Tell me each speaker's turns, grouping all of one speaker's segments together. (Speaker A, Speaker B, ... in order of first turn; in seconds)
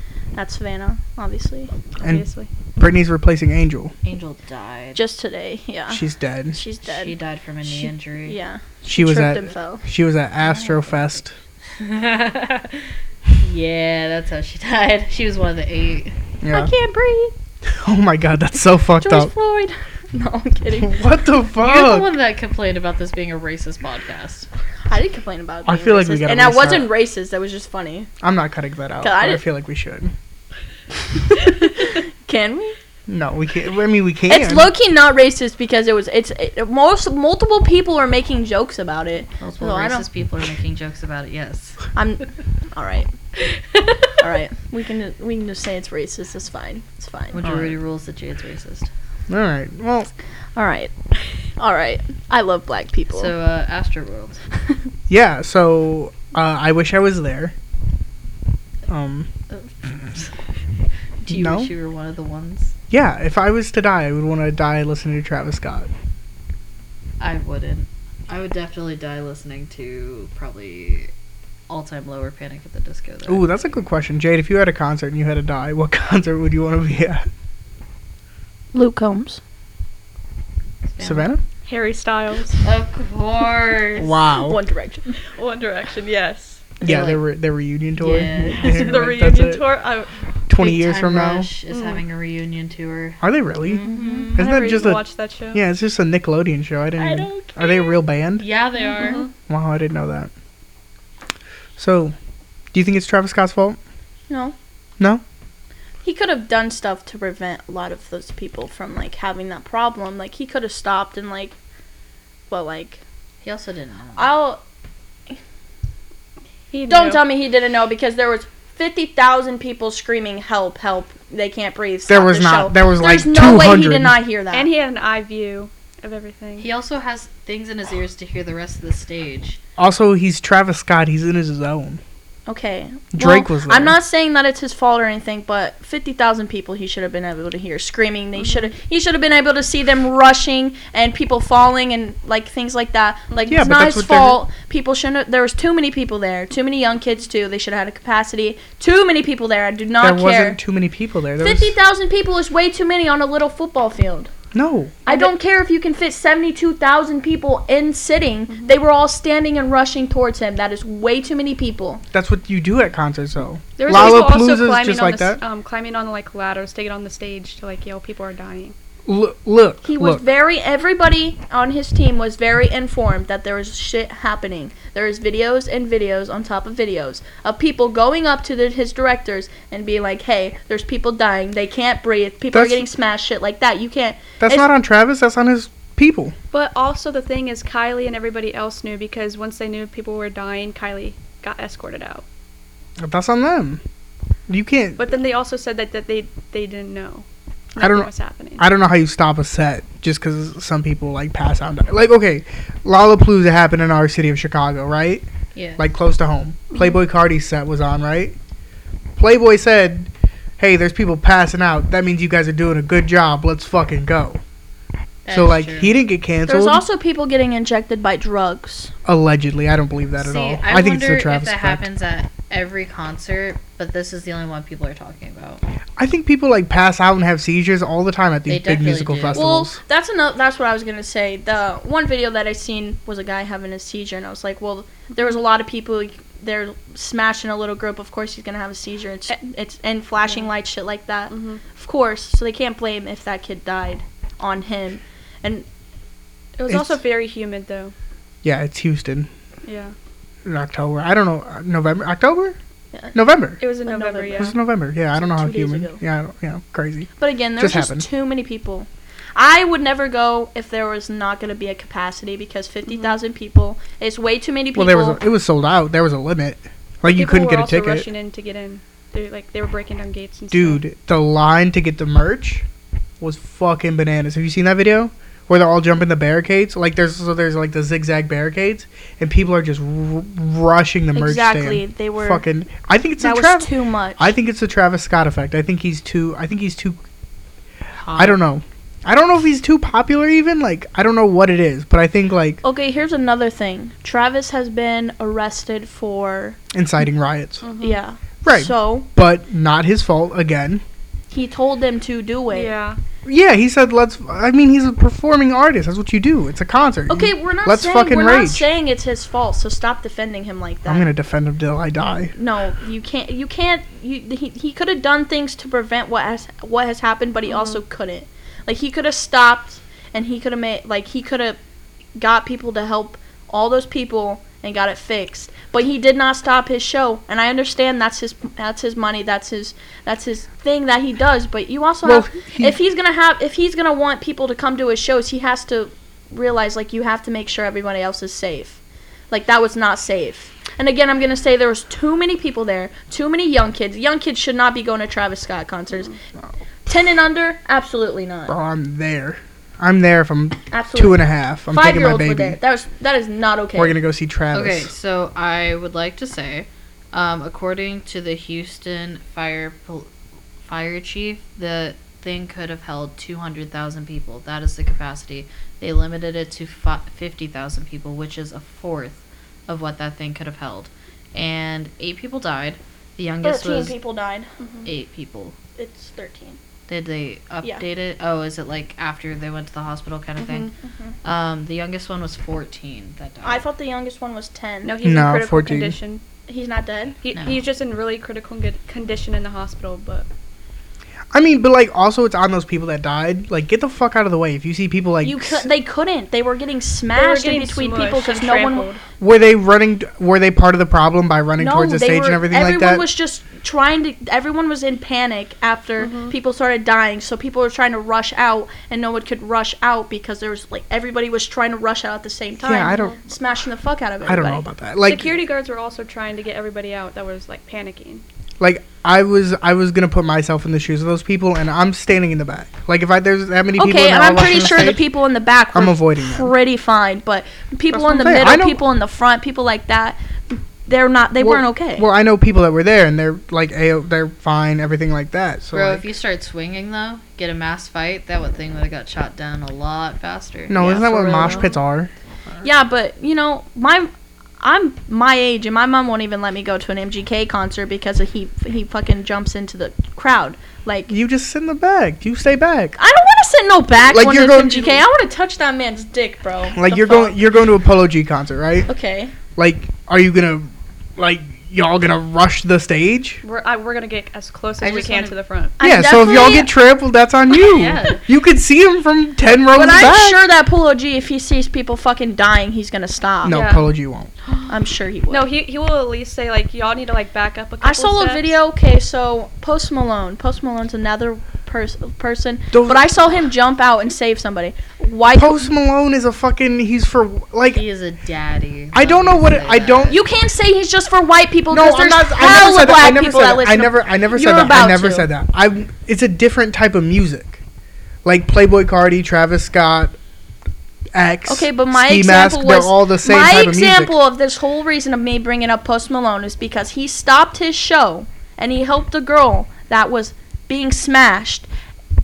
Speaker A: 0.3-1.7, 4.9-9.8, 16.5-17.3, 19.0-21.0, 24.9-28.1, 29.0-29.4, 31.3-32.8, 34.3-40.1, 42.0-43.1, 44.2-47.4, 50.6-50.9, 51.6-53.3, 78.7-79.4, 84.5-85.1, 93.8-94.4, 97.0-98.0, 104.3-104.6, 106.0-111.6, 112.5-113.0, 114.2-114.6, 116.9-124.7, 132.5-150.6, 151.4-154.3, 155.1-162.0, 169.8-184.7, 216.4-218.9, 229.3-245.7, 253.8-254.6, 255.1-256.0, 257.2-265.2, 281.1-282.4, 283.2-284.3, 292.6-296.6, 297.8-299.1, 301.3-302.7, 307.1-311.1, 312.4-321.6, 322.2-346.2, 346.9-348.6, 350.7-354.0, 373.4-374.5, 375.8-376.6, 380.8-381.1, 383.4-384.9, 386.5-387.1, 395.2-398.9, 401.6-414.6, 423.8-432.1, 440.8-441.7, 442.6-451.1, 453.0-457.4, 458.9-459.3, 465.8-466.7, 469.7-473.6, 474.7-475.5, 477.8-485.7, 490.1-495.3, 501.5-511.7
Speaker B: 2.0-2.5, 81.7-82.6, 85.2-86.7, 88.6-90.1, 91.7-92.0, 94.4-95.6, 98.9-99.3, 116.7-117.2, 124.5-126.7, 138.4-138.7, 143.3-143.6, 155.1-155.3, 163.8-168.8, 186.5-192.2, 195.0-198.6, 241.3-241.6, 246.6-247.9, 249.7-249.9, 253.6-254.5, 262.9-263.2, 267.1-270.8, 297.6-298.0, 302.5-303.0, 317.5-317.8, 374.6-374.9, 380.4-380.7, 384.8-386.2, 387.2-390.3, 397.1-399.0, 406.0-406.3, 412.8-413.2, 415.1-418.2, 463.4-465.8, 473.5-473.9, 475.3-478.6
Speaker C: 2.8-3.9, 5.9-6.6, 8.9-11.3, 16.4-16.7, 17.7-19.3, 20.8-22.1, 25.6-26.9, 28.2-30.1, 33.1-34.7, 47.4-47.8, 49.3-50.1, 55.1-57.5, 58.9-59.3, 61.3-61.7, 62.9-65.9, 73.3-77.3, 81.0-81.4, 84.0-84.6, 86.8-89.6, 90.5-91.5, 93.2-93.8, 94.4-95.0, 95.5-98.5, 99.5-100.3, 101.8-102.2, 102.7-103.8, 122.1-124.2, 129.8-132.0, 133.1-134.0, 143.5-144.4, 150.0-151.7, 154.5-155.0, 162.1-165.4, 169.1-170.2, 182.5-182.9, 184.4-186.3, 193.0-193.8, 194.5-195.1, 197.8-208.3, 209.2-214.4, 215.3-216.8, 219.1-221.8, 226.0-229.8, 246.7-247.0, 248.4-249.3, 250.4-252.6, 253.1-253.6, 254.4-258.1, 264.8-268.1, 270.5-272.7, 273.2-287.0, 288.1-292.6, 296.7-297.6, 298.4-300.8, 303.2-308.7, 310.9-312.3, 332.0-332.8, 348.5-352.6, 353.8-354.9, 385.0-386.0, 391.3-395.7, 399.2-403.0, 412.6-413.2, 414.2-415.4, 418.6-425.0, 425.7-426.5, 427.9-428.8, 431.4-436.1, 440.7-442.6, 451.1-453.0, 454.1-455.1, 456.7-458.9, 459.6-463.4, 465.8-470.4, 473.4-474.3, 482.7-483.0, 485.3-487.8, 488.9-490.2, 491.7-497.6, 498.2-500.2, 501.1-504.1
Speaker D: 4.0-5.0, 6.8-8.4, 10.4-11.0, 11.7-16.1, 21.6-24.5, 39.4-41.9, 43.8-44.1, 47.3-48.9, 53.1-54.4, 59.5-60.5, 61.2-62.8, 67.2-71.1, 71.7-73.5, 80.8-81.3, 82.6-84.2, 86.8-87.2, 88.0-89.1, 90.6-94.4, 98.4-99.3, 113.4-114.3, 126.6-129.6, 205.5-205.8, 215.2-215.9, 220.2-225.6, 228.5-229.5, 288.0-288.4, 354.5-360.1, 360.7-374.0, 374.9-375.6, 376.9-380.7, 381.2-383.6, 387.3-387.6, 435.7-441.7, 464.8-465.4, 467.5-468.2, 487.7-490.2